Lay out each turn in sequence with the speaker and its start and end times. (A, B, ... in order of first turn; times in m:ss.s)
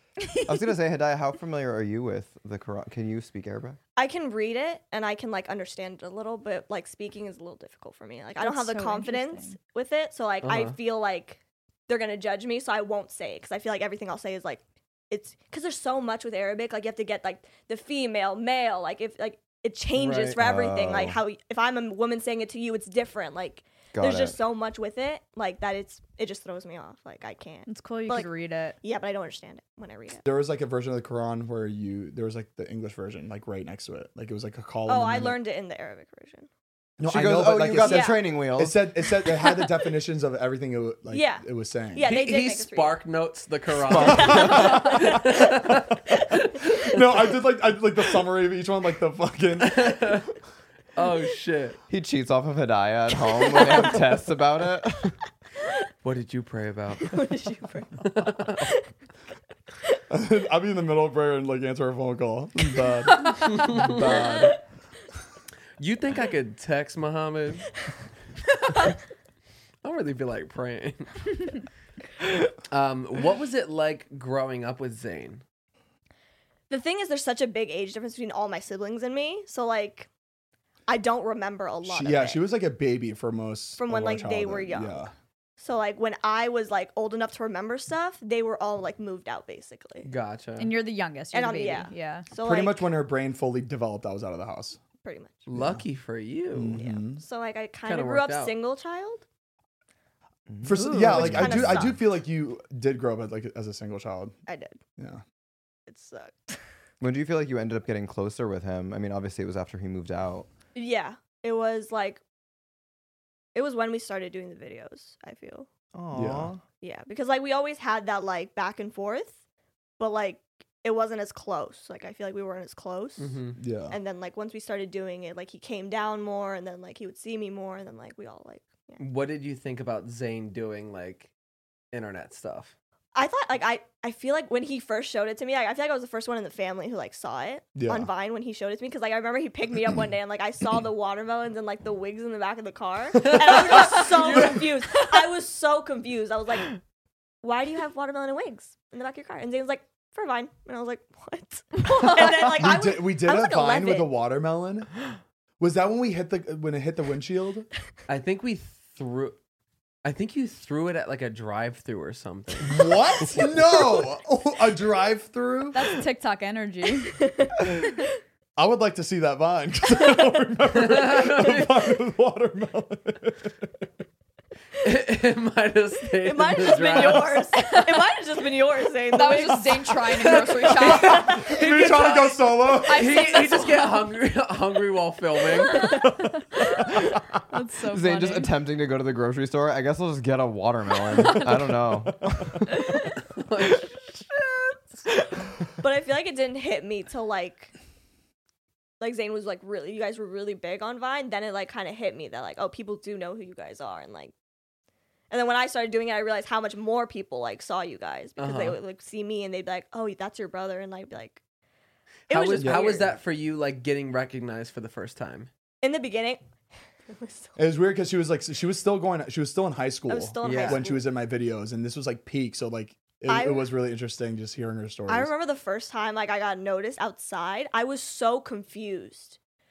0:00.2-0:00.5 A
0:00.5-0:03.8 B
0:04.0-0:28.3 C
0:08.4-0:09.6 A
0:10.4-0:10.8 D
0:20.0-0:20.4 D
0:20.4-0:21.2 B
0:23.9-0:24.4 B
0:27.7-0:28.8 A
0:28.8-0:30.2 C
0:30.2-0:35.4 E
0:34.9-0:36.5 C
0:37.0-0:42.1 E
0:37.0-0:38.8 B
0:37.8-0:38.3 C
0:39.3-0:39.8 C
0:41.1-0:43.0 C
0:42.0-0:47.0 D
0:43.9-0:44.9 E
0:44.0-0:44.8 B
0:44.0-0:45.5 C
0:46.8-0:50.2 E
0:49.6-0:50.3 D
0:51.0-0:51.8 D
0:51.9-0:55.2 B
0:53.3-0:53.8 C
0:56.0-0:57.2 D
0:57.1-0:58.8 C
0:58.0-0:58.6 D
1:00.1-1:04.6 E
1:03.4-1:04.5 D
1:04.1-1:04.5 C
1:05.8-1:07.7 D
1:09.8-1:11.3 D
1:12.7-1:15.4 D
1:16.7-1:20.1 C
1:20.9-1:22.4 C
1:21.8-1:25.1 E
1:23.8-1:25.1 C
1:25.6-1:30.1 C
1:30.0-1:30.7 D
1:30.6-1:32.3 A
1:31.3-1:32.9 C
1:32.4-1:34.8 E
1:35.0-1:35.5 C
1:35.5-1:36.8 D
1:35.6-1:35.8 E
1:36.5-1:37.2 E
1:36.8-1:39.2 C
1:37.8-1:38.6 D
1:40.5-1:41.8 B
1:40.6-1:44.3 E
1:40.7-1:41.4 A
1:41.0-1:42.0 C
1:44.5-1:44.8 C
1:45.9-1:46.6 C
1:47.0-1:50.5 B
1:50.8-1:52.2 C
1:53.5-1:55.7 C
1:55.9-1:56.6 B
1:56.1-1:56.5 E
1:56.8-1:59.4 C
2:00.0-2:09.0 C
2:03.2-2:03.6 D
2:03.6-2:04.0 E
2:09.0-2:11.3 D
2:11.9-2:12.7 D
2:13.2-2:26.8 C
2:17.8-2:18.1 E
2:23.2-2:24.7 D
2:27.4-2:34.1 C
2:32.1-2:35.0 E
2:35.6-2:37.7 E
2:38.1-2:39.4 D
2:40.0-2:43.5 D
2:42.6-2:46.0 E
2:45.7-2:47.2 A
2:47.2-2:47.7 C
2:48.6-2:53.7 E
2:50.7-2:51.8 D
2:54.8-2:57.5 D
2:56.2-3:00.0 C
2:59.1-3:01.3 A
3:00.2-3:06.0 D
3:00.9-3:01.6 C
3:01.1-3:03.2 E
3:02.8-3:04.0 A
3:05.7-3:06.1 A
3:07.5-3:08.5 A
3:07.9-3:12.7 B
3:11.8-3:12.6 E
3:13.3-3:14.4 D
3:15.8-3:17.7 C
3:19.0-3:24.3 C
3:25.3-3:31.4 C
3:28.4-3:28.8 D
3:32.3-3:33.1 C
3:32.3-3:35.5 D
3:32.6-3:33.0 E
3:35.8-3:36.4 C
3:37.1-3:37.6 C
3:37.6-3:45.3 E
3:40.1-3:41.0 C
3:40.4-3:40.9 D
3:43.3-3:43.7 C
3:45.1-3:49.4 C